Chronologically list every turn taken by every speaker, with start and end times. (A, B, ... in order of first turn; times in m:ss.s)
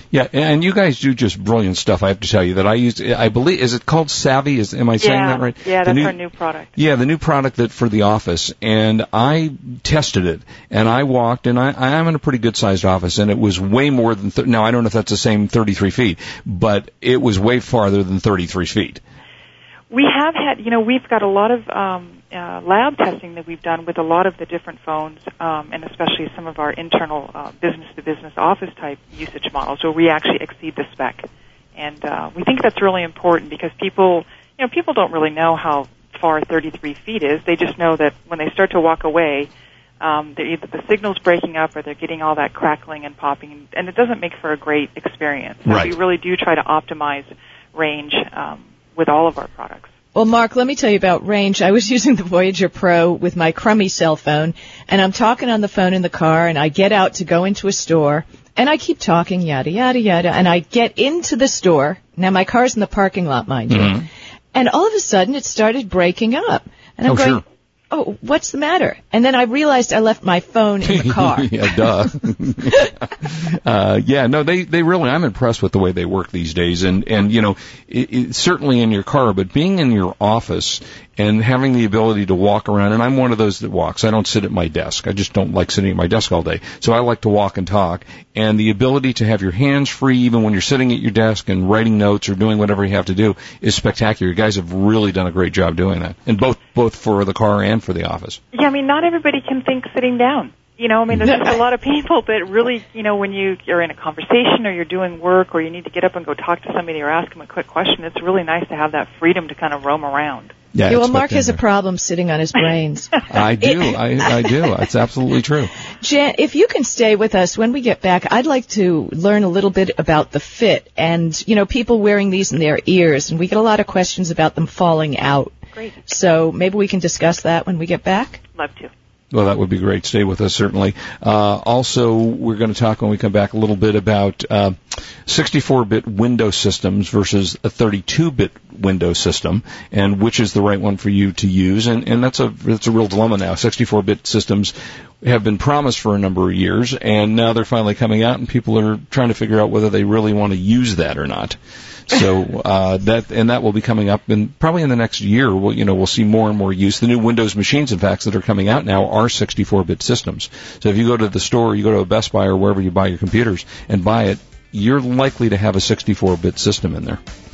0:00.1-0:06.2 A
0:05.0-0:06.7 B
0:06.8-0:19.0 A
0:19.9-0:39.5 B
0:40.0-0:49.9 B
0:45.6-0:46.0 A
0:50.2-1:12.1 C
1:03.7-1:04.1 A
1:07.1-1:07.4 A
1:10.8-1:38.4 A
1:38.5-1:50.5 B
1:50.7-1:51.6 A
1:50.9-1:54.5 C
1:53.3-1:55.7 A
1:56.0-2:05.6 C
2:05.7-2:06.0 B
2:06.1-2:08.4 C
2:08.6-2:08.9 B
2:09.3-2:31.6 A
2:32.1-2:47.2 A